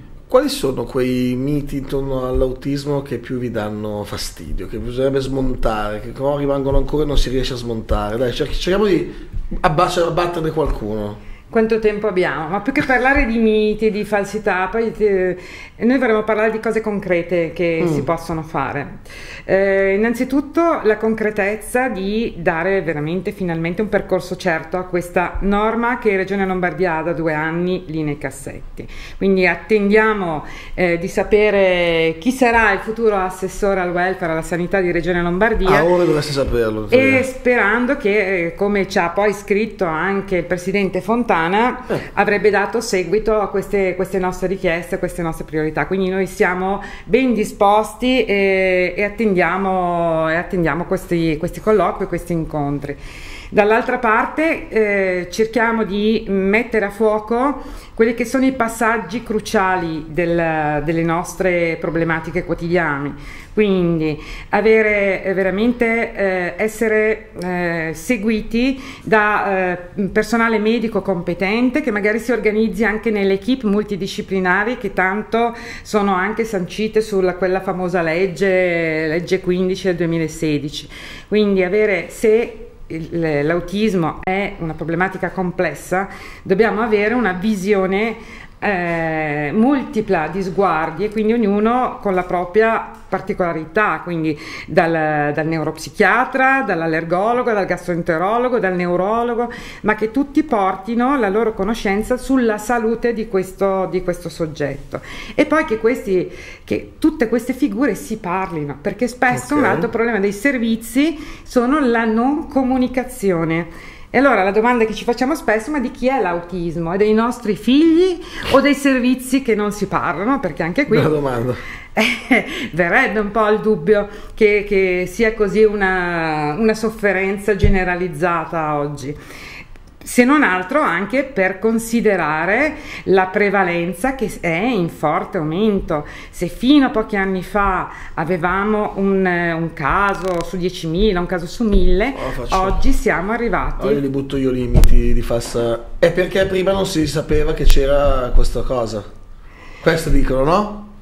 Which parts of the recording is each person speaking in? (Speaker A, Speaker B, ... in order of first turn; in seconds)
Speaker A: 0.3-11.2, 17.8-18.1, 35.6-37.2, 109.3-109.9, 120.9-121.6, 142.1-142.8, 143.8-149.0, 149.8-150.9
Speaker B: 11.5-35.9, 36.9-53.0, 53.5-121.2, 122.0-129.2, 130.0-144.0